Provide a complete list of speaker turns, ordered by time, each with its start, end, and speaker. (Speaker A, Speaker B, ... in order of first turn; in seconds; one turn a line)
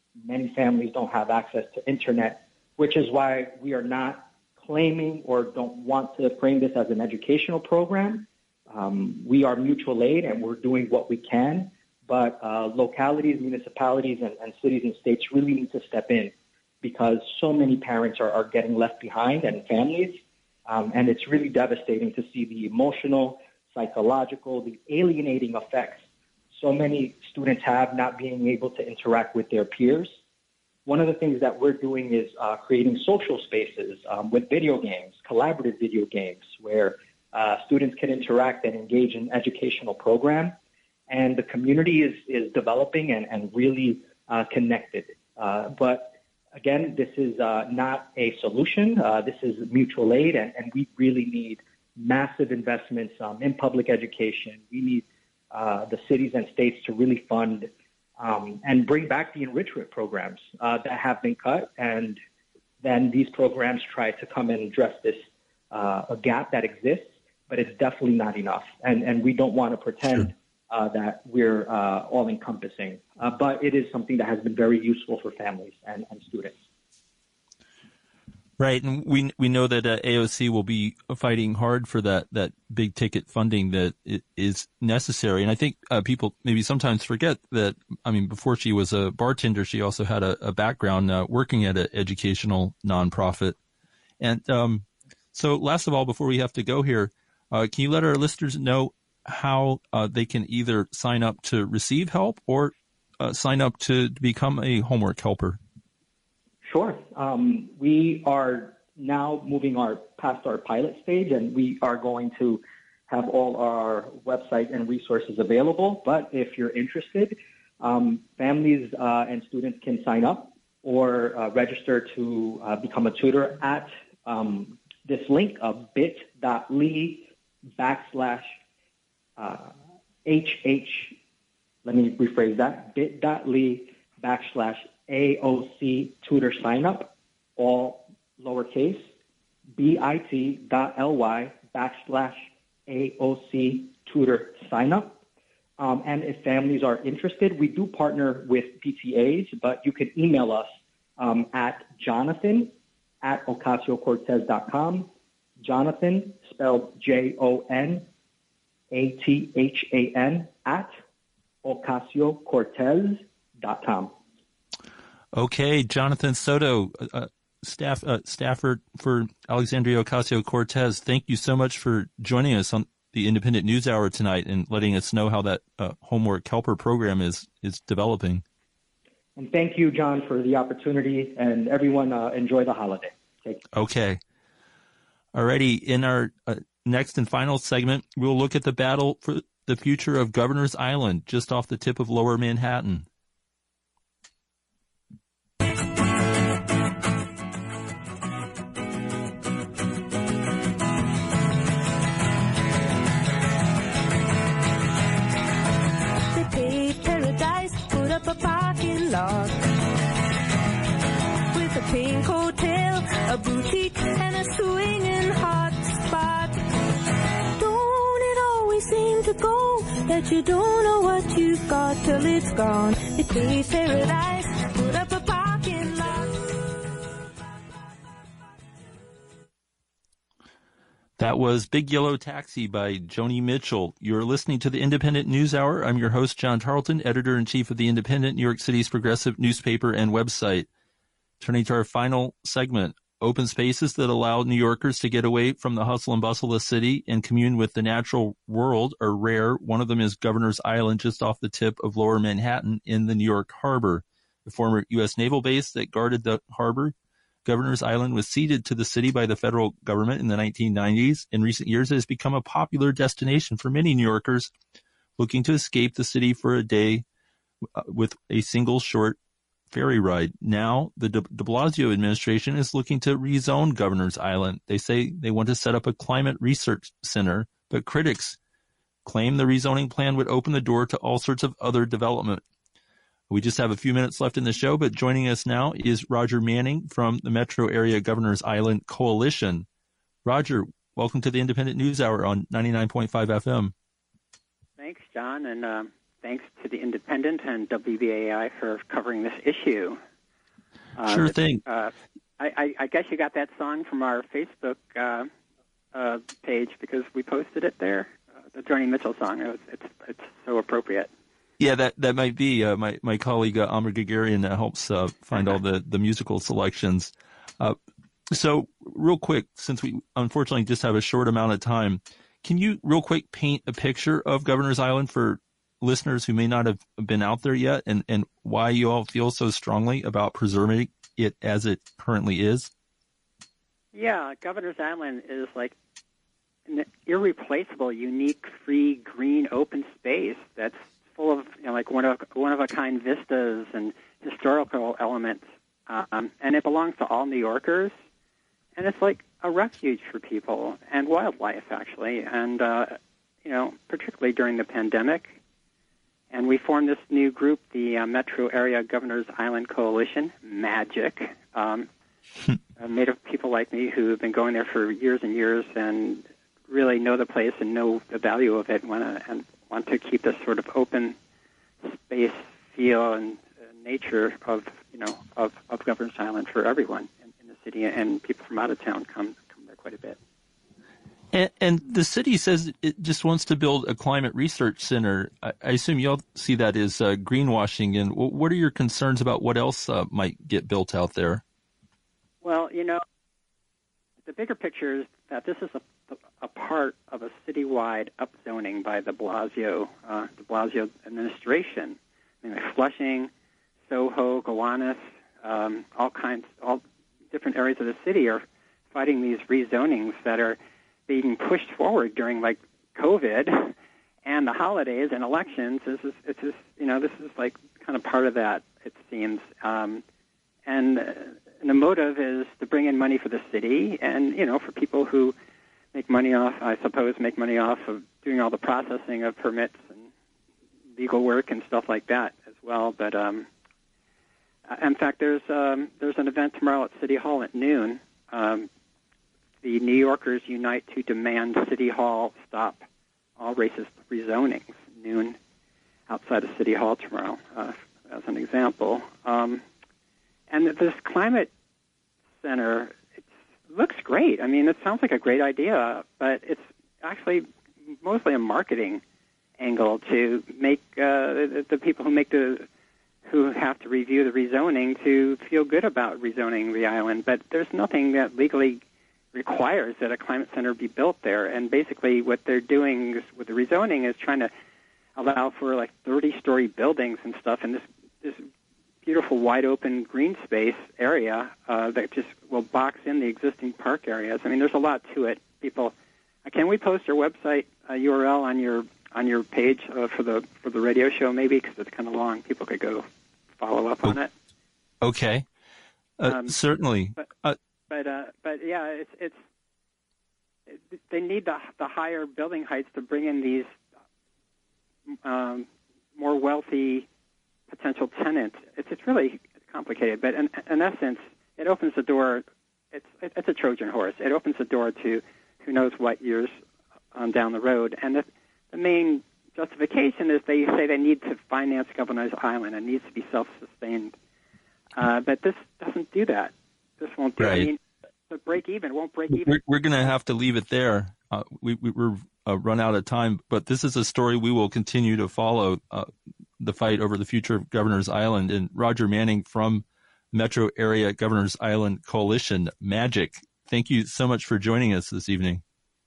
Speaker A: 0.2-30.1
Speaker A: 30.9-40.6
Speaker A: 41.1-62.2
Speaker A: 62.8-76.6
Speaker B: 78.6-93.6
Speaker B: 94.2-105.6
Speaker A: 106.6-128.5
Speaker A: 129.4-129.7
Speaker A: 130.2-131.2
Speaker A: 131.8-139.1
Speaker A: 139.8-145.2
Speaker A: 145.8-155.1
Speaker A: 155.6-158.1
Speaker A: 158.9-160.9
Speaker A: 161.6-164.1
Speaker B: 165.3-178.4
Speaker A: 179.4-183.6
Speaker B: 183.7-184.2
Speaker B: 185.3-193.1
Speaker C: 206.3-209.6
Speaker C: 211.5-216.6
Speaker C: 217.6-226.5
Speaker B: 231.2-240.7
Speaker B: 241.4-256.9
Speaker B: 257.4-264.5
Speaker B: 265.2-267.0
Speaker B: 267.8-269.2
Speaker B: 269.7-278.4
Speaker B: 279.1-282.4
Speaker B: 283.3-289.7
Speaker B: 290.2-293.7
Speaker D: 294.8-300.0
Speaker D: 301.0-305.3
Speaker B: 301.1-301.6
Speaker D: 305.9-311.1
Speaker B: 311.6-317.8
Speaker B: 318.3-332.7
Speaker D: 333.9-335.7
Speaker D: 336.7-348.0
Speaker D: 348.8-355.4
Speaker D: 356.3-361.9
Speaker D: 362.8-371.2
Speaker D: 371.8-380.2
Speaker B: 381.3-391.4
Speaker D: 392.4-393.0
Speaker D: 394.2-403.3
Speaker D: 403.9-420.0
Speaker D: 420.7-425.4
Speaker D: 425.9-430.1
Speaker D: 431.0-433.5
Speaker D: 434.7-438.7
Speaker D: 439.6-442.9
Speaker D: 443.4-445.4
Speaker D: 446.1-449.6
Speaker D: 450.5-451.5
Speaker D: 452.4-453.2
Speaker D: 453.7-459.0
Speaker D: 459.6-462.7
Speaker D: 463.2-468.8
Speaker D: 469.3-474.5
Speaker D: 475.2-478.5
Speaker D: 479.0-485.9
Speaker D: 486.4-493.1
Speaker D: 493.6-494.3
Speaker B: 495.0-495.5
Speaker B: 496.2-497.6
Speaker D: 496.3-496.6
Speaker D: 497.9-499.4
Speaker D: 500.9-503.7
Speaker D: 505.2-507.1
Speaker D: 507.7-516.6
Speaker D: 517.1-524.1
Speaker D: 525.0-527.8
Speaker B: 527.4-527.7
Speaker D: 528.3-529.6
Speaker B: 529.3-545.6